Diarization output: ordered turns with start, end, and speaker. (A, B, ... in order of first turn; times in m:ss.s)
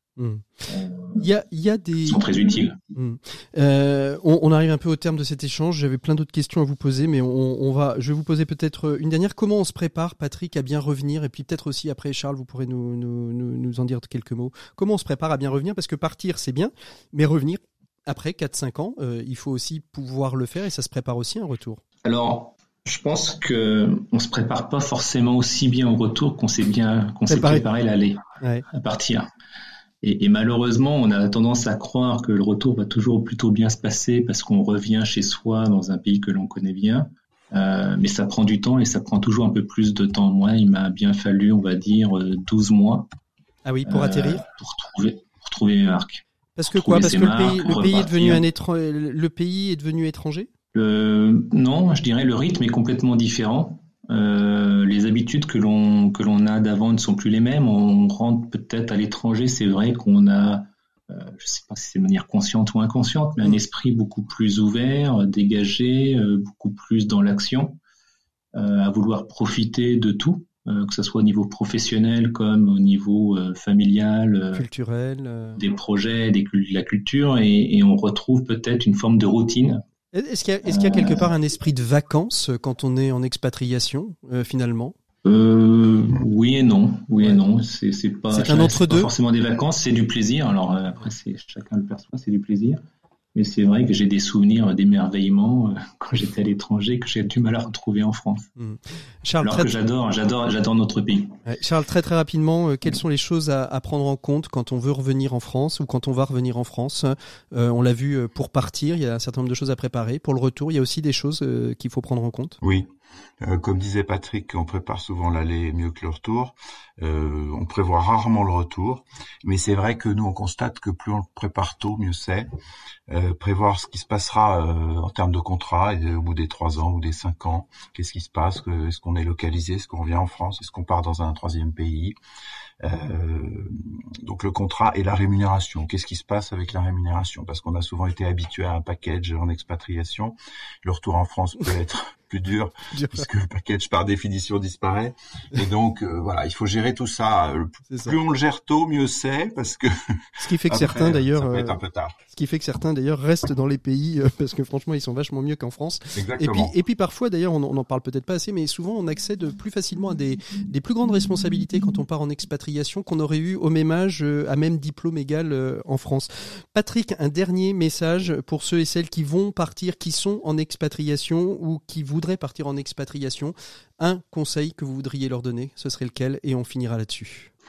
0:00.2-0:00.4 A
0:00.7-0:01.2 B
0:01.2-0:02.3 A
0:02.0-0:02.8 B
0:02.9-0:21.8 A
0:22.0-0:29.3 B
0:27.3-0:27.7 A
0:28.4-0:28.6 A
0:30.0-0:43.1 B
0:43.6-0:44.5 A
0:43.8-0:48.4 B
0:46.6-0:50.5 A
0:50.7-1:07.8 B
1:08.6-1:14.7 B
1:14.5-1:15.6 A
1:15.6-1:19.8 B
1:20.1-1:25.0 A
1:20.7-1:21.3 B
1:25.2-1:32.8 B
1:28.3-1:29.1 A
1:33.4-1:38.5 B
1:38.6-1:39.8 A
1:39.4-1:41.4 B
1:41.5-1:52.6 A
1:52.6-1:52.9 C
1:53.4-2:02.5 C
2:03.1-2:12.2 C
2:12.8-2:32.2 C
2:22.9-2:23.3 A
2:27.9-2:28.2 A
2:30.4-2:31.8 A
2:32.3-2:57.5 A
2:36.2-2:36.7 C